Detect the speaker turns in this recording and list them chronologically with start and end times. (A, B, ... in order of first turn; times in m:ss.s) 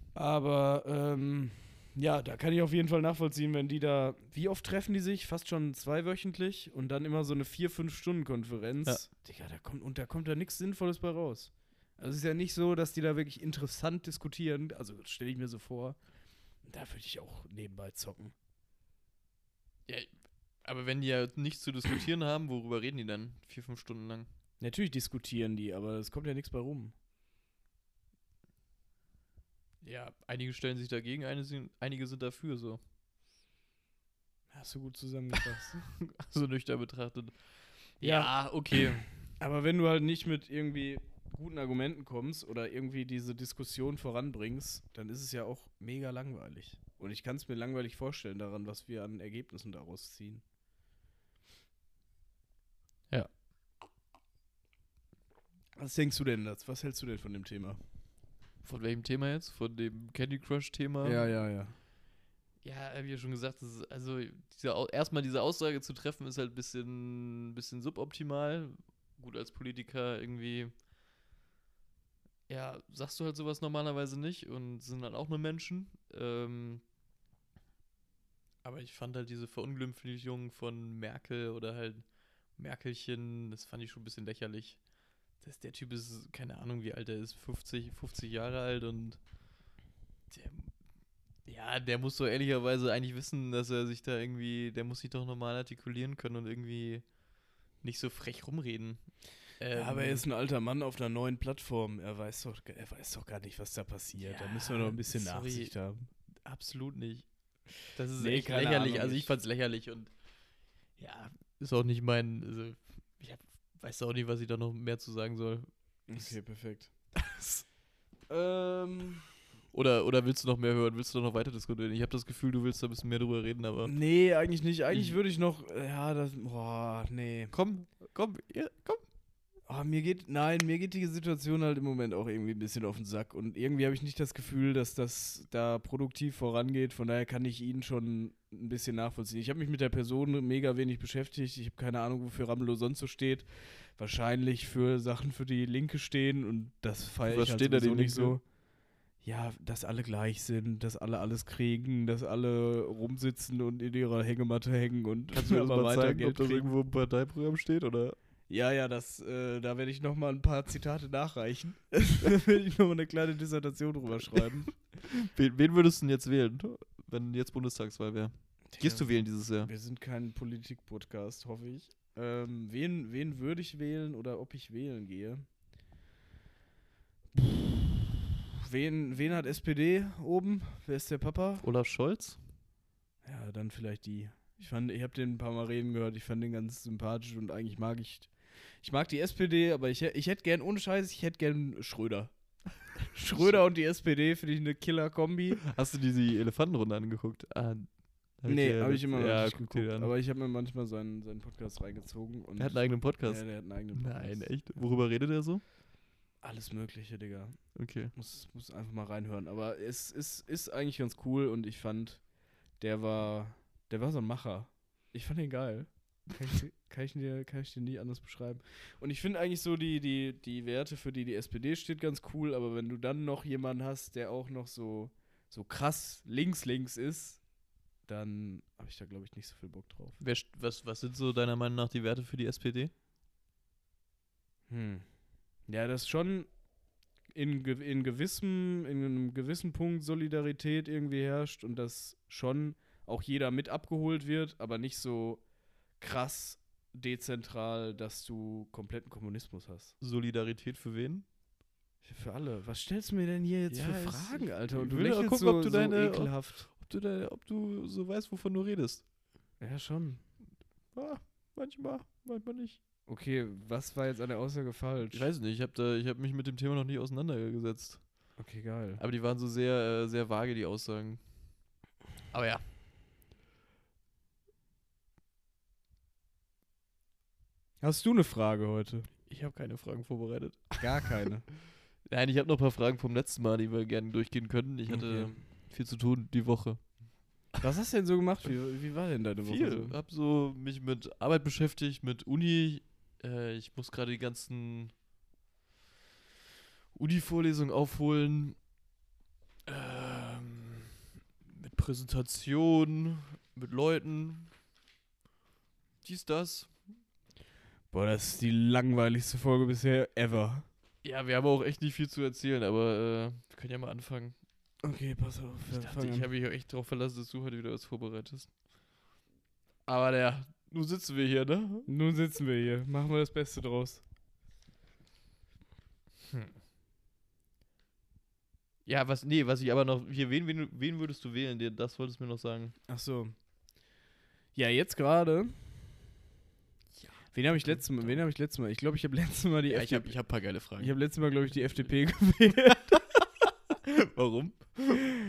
0:00.1-0:16.0 A
0:16.6-0:18.3 A
0:19.8-0:24.3 B
0:24.6-0:26.9 A
0:29.8-0:32.8 B
0:34.5-0:35.9 A
0:36.0-0:39.1 B
0:38.0-0:50.4 A
0:55.8-0:57.8 A
0:58.6-1:01.3 B
1:01.0-1:01.8 A
1:02.6-1:10.7 B
1:12.5-1:16.8 B
1:18.6-1:24.8 B
1:25.4-1:29.2 B
1:30.3-1:30.8 B
1:31.4-1:37.2 B
1:37.8-1:40.2 B
1:39.7-1:46.1 A
1:44.2-1:45.7 B
1:46.4-1:50.2 B
1:48.2-1:49.3 A
1:50.9-1:56.4 B
1:56.1-1:56.9 A
1:57.2-1:57.6 B
1:58.3-1:59.3 A
1:59.7-2:04.0 B
2:03.8-2:07.5 A
2:04.9-2:05.2 B
2:07.5-2:09.0 B
2:09.7-2:28.5 A
2:27.2-2:28.4 B
2:29.2-2:36.7 A
2:35.3-2:38.2 B
2:38.5-2:44.7 A
2:44.9-2:49.7 B
2:48.7-2:55.4 A
2:57.3-2:58.0 A
2:58.6-3:01.7 A
3:01.6-3:02.4 B
3:03.2-3:15.7 A
3:13.3-3:13.6 B
3:15.7-3:20.1 B
3:18.4-3:24.5 A
3:22.6-3:25.6 B
3:26.4-3:47.5 A
3:27.7-3:28.1 B
3:48.0-3:50.2 A
3:50.2-3:52.9 B
3:54.7-3:56.6 A
3:57.3-4:05.4 A
4:06.0-4:09.9 A
4:10.0-4:11.2 B
4:12.0-4:16.7 A
4:13.7-4:19.0 B
4:19.6-4:20.2 A
4:20.9-4:22.8 B
4:23.1-4:25.3 A
4:25.1-4:28.4 B
4:28.4-4:29.0 A
4:29.0-4:31.3 B
4:32.3-4:32.6 B
4:37.8-4:39.1 A
4:39.3-4:41.1 B
4:40.8-4:41.5 A
4:42.0-4:47.1 B
4:44.9-4:45.4 A
4:47.6-4:50.0 A
4:49.4-4:55.0 B
4:56.9-4:58.7 B
4:59.6-5:00.9 B
5:01.4-5:04.5 B
5:06.0-5:06.9 B
5:07.9-5:10.6 A
5:11.0-5:14.4 B
5:14.8-5:16.3 A
5:15.7-5:18.6 B
5:19.8-5:21.9 B
5:21.9-5:24.0 A
5:28.8-5:32.8 B
5:32.9-5:33.3 A
5:34.5-5:36.2 A
5:37.0-5:38.2 B
5:37.3-5:43.0 A
5:39.7-5:40.9 B
5:43.8-5:45.1 B